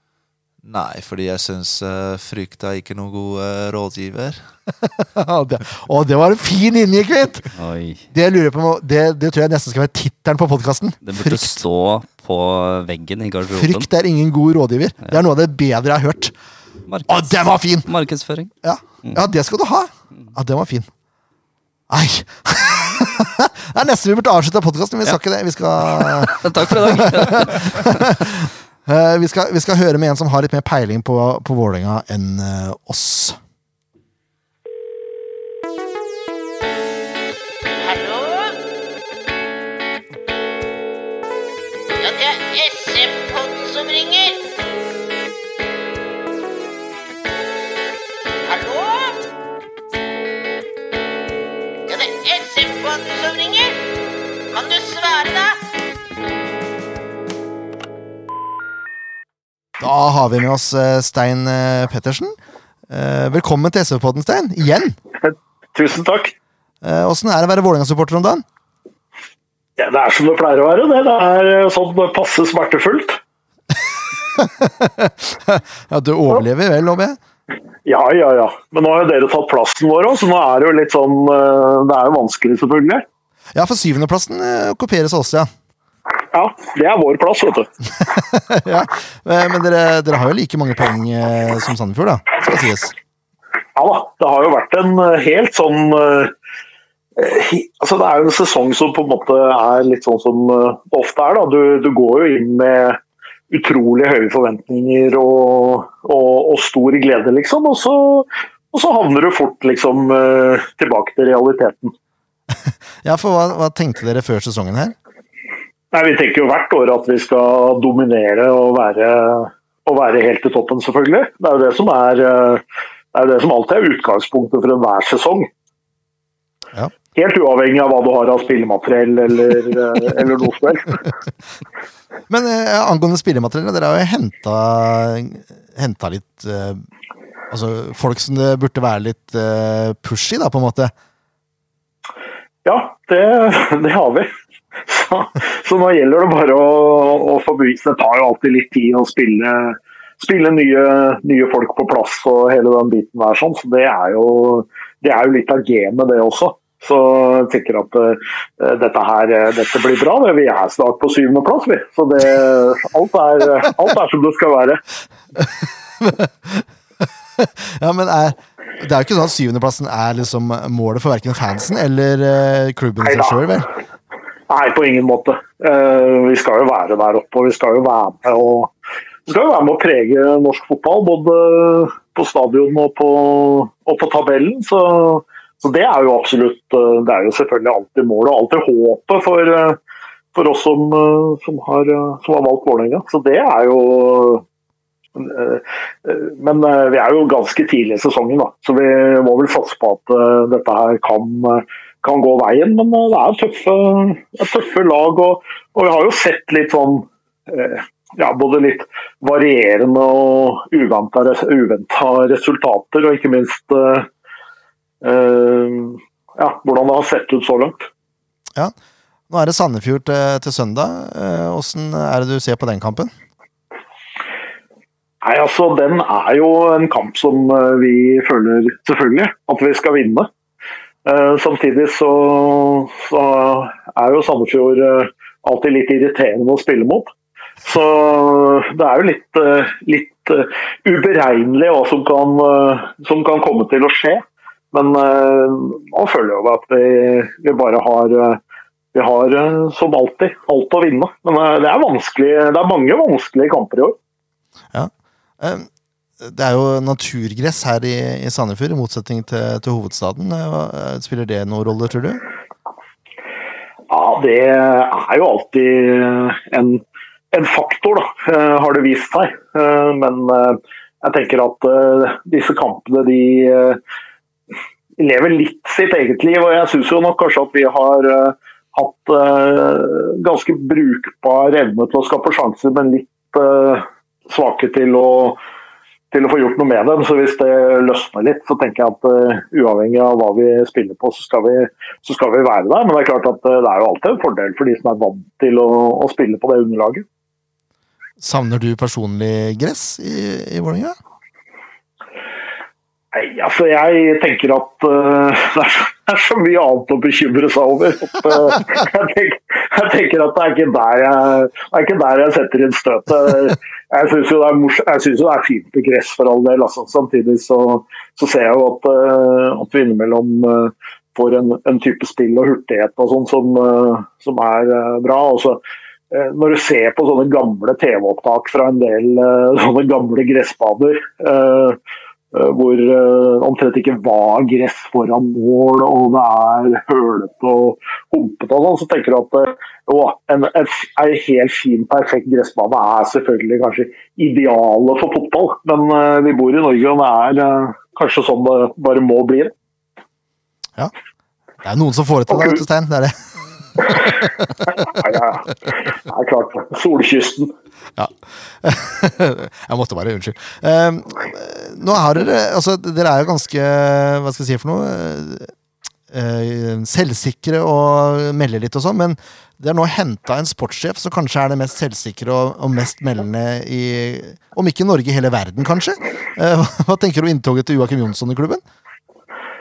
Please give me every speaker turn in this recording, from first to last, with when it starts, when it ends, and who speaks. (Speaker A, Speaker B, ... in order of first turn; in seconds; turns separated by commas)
Speaker A: 0.6-4.4, Speaker B: 4.8-7.5, Speaker C: 7.5-8.1, Speaker B: 8.1-11.6, Speaker C: 11.0-13.9, Speaker B: 13.5-16.3, Speaker C: 16.9-18.5, Speaker B: 17.1-17.9, Speaker B: 18.6-20.9, Speaker B: 21.9-33.4, Speaker C: 25.9-28.1, Speaker D: 37.8-38.5, Speaker D: 42.0-44.4, Speaker D: 48.5-49.2, Speaker D: 51.9-53.7, Speaker D: 54.5-55.6, Speaker B: 59.8-62.3, Speaker B: 62.9-65.0, Speaker E: 65.2-66.3, Speaker B: 66.8-68.4, Speaker E: 69.8-73.2, Speaker B: 74.4-77.2, Speaker E: 77.9-83.0, Speaker B: 83.5-85.5, Speaker E: 86.3-87.7, Speaker B: 88.1-92.9, Speaker E: 93.7-96.3, Speaker E: 97.2-103.0, Speaker E: 103.5-111.9, Speaker B: 113.0-114.9, Speaker E: 115.9-122.6, Speaker E: 123.1-125.5, Speaker E: 127.1-131.0, Speaker B: 132.3-136.9, Speaker B: 137.5-140.9, Speaker E: 142.6-144.3, Speaker E: 144.8-164.8, Speaker B: 166.0-166.7, Speaker B: 167.4-173.7, Speaker E: 173.0-173.4, Speaker E: 174.5-178.7, Speaker E: 179.3-189.8, Speaker E: 190.3-194.4, Speaker E: 195.2-214.1, Speaker E: 215.0-217.9, Speaker B: 219.3-223.1, Speaker E: 225.2-230.3, Speaker E: 231.1-237.1, Speaker E: 237.6-248.4, Speaker E: 248.9-253.9, Speaker B: 254.7-255.7, Speaker B: 256.2-262.2, Speaker E: 263.9-273.8, Speaker E: 275.0-285.4, Speaker E: 286.1-297.0, Speaker B: 298.2-300.9, Speaker E: 303.1-325.6, Speaker E: 326.1-331.8, Speaker E: 332.3-349.5, Speaker B: 351.6-353.2, Speaker E: 354.9-357.5, Speaker B: 358.6-365.5, Speaker B: 366.1-378.6